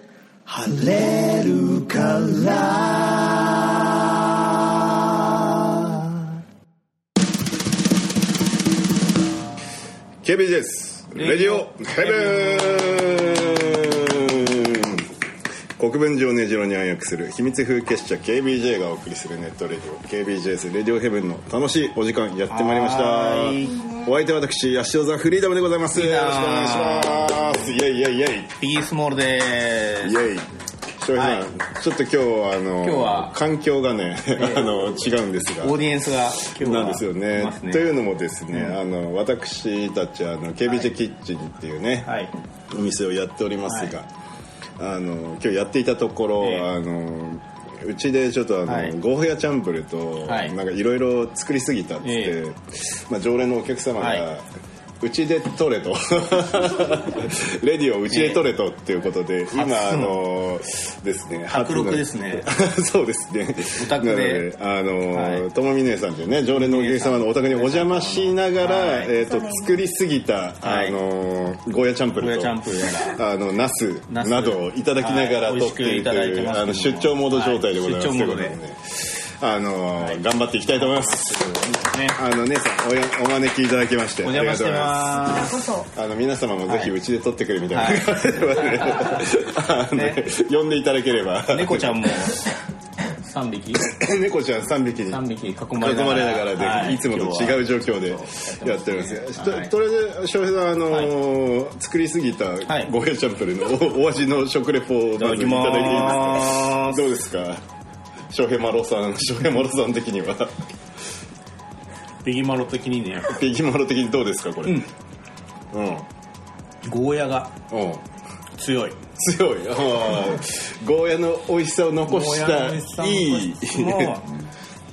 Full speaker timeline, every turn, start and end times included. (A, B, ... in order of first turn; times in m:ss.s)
0:00.5-0:06.0 A
0:10.2-0:15.1 B
0:11.1-0:14.6 C
0:15.8-0:28.6 B
0:22.5-0:23.9 C
0:25.9-0:27.7 C
0:28.6-0:30.2 C
0:30.0-0:42.1 B
0:31.2-0:31.5 C
0:32.8-0:33.4 C
0:34.4-0:35.0 C
0:35.6-0:37.9 C
0:38.5-0:38.8 C
0:42.0-0:42.3 C
0:42.7-0:44.1 B
0:43.7-0:43.9 C
0:44.8-0:54.5 B
0:46.4-0:46.7 C
0:48.7-0:49.0 C
0:50.2-0:50.6 C
0:52.0-0:52.4 C
0:54.0-0:54.2 C
0:55.0-1:32.4 B
0:58.1-0:58.4 C
0:59.5-1:00.2 C
1:01.5-1:02.5 C
1:03.8-1:04.5 C
1:05.1-1:05.5 C
1:06.6-1:09.1 C
1:10.6-1:11.0 C
1:12.2-1:13.2 C
1:14.1-1:18.6 C
1:20.8-1:22.2 C
1:24.2-1:25.8 C
1:26.7-1:26.9 C
1:27.7-1:29.2 C
1:29.9-1:30.2 C
1:31.5-1:32.5 C
1:33.1-1:33.9 C
1:33.8-1:35.2 B
1:35.1-1:39.7 C
1:35.8-1:47.6 B
1:40.9-1:41.1 C
1:42.6-1:42.9 C
1:45.2-1:47.1 C
1:48.3-1:50.6 B
1:52.2-1:53.4 C
1:53.3-1:54.9 B
1:55.7-1:56.1 B
1:56.8-1:57.6 C
1:57.7-1:58.0 B
1:58.6-1:59.0 C
1:59.2-2:04.2 B
2:02.1-2:04.3 C